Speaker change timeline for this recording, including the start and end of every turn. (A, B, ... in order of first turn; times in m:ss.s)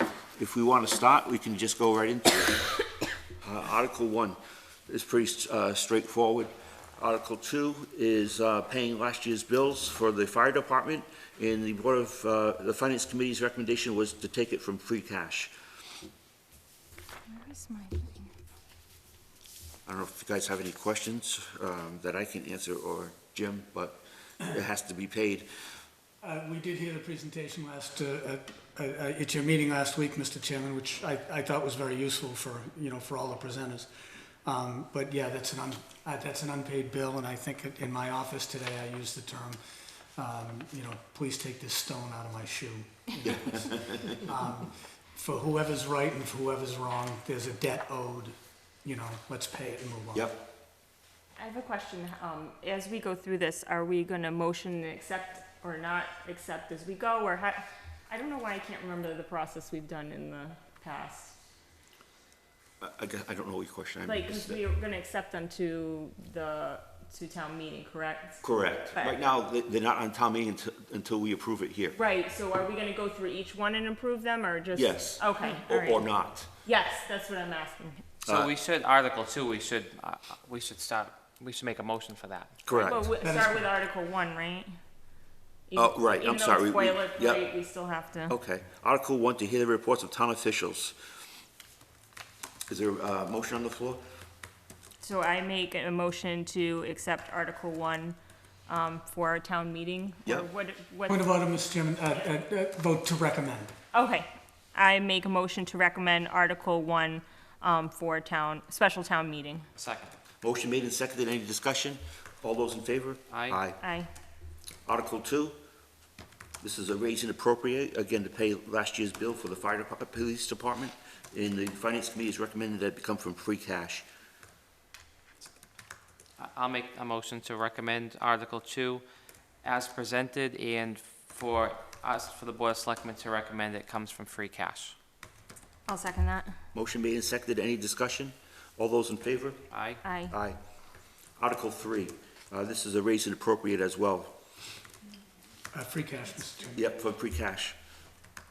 0:00.4-0:02.7 A
0:03.4-0:04.4 A
0:04.9-0:15.5 A
0:17.3-0:18.3 B
0:19.8-0:25.4 A
0:26.2-0:33.9 C
0:34.4-0:39.6 C
0:40.2-0:50.3 C
0:43.2-0:44.2 A
0:51.4-1:01.3 B
1:02.8-1:04.6 A
1:04.0-1:09.2 B
1:08.4-1:12.0 A
1:11.9-1:16.0 B
1:14.7-1:16.5 A
1:16.6-1:18.0 B
1:18.2-1:22.8 D
1:22.6-1:23.1 A
1:22.7-1:24.7 B
1:23.2-1:23.7 C
1:25.7-1:28.3 B
1:25.8-1:27.4 A
1:28.3-1:30.9 A
1:32.7-1:34.0 A
1:35.0-1:38.2 B
1:38.7-1:41.3 B
1:41.1-1:43.7 C
1:42.1-1:42.4 B
1:43.9-1:49.6 B
1:49.8-1:50.1 D
1:50.4-1:53.8 A
1:53.3-1:53.6 D
1:53.8-1:54.1 B
1:54.8-1:55.6 A
1:56.6-2:04.0 A
2:06.4-2:09.0 D
2:09.6-2:14.9 D
2:15.9-2:16.5 B
2:16.7-2:19.6 A
2:19.7-2:20.0 D
2:20.0-2:20.3 B
2:20.3-2:20.6 A
2:21.4-2:24.4 A
2:25.7-2:26.8 C
2:26.7-2:27.7 A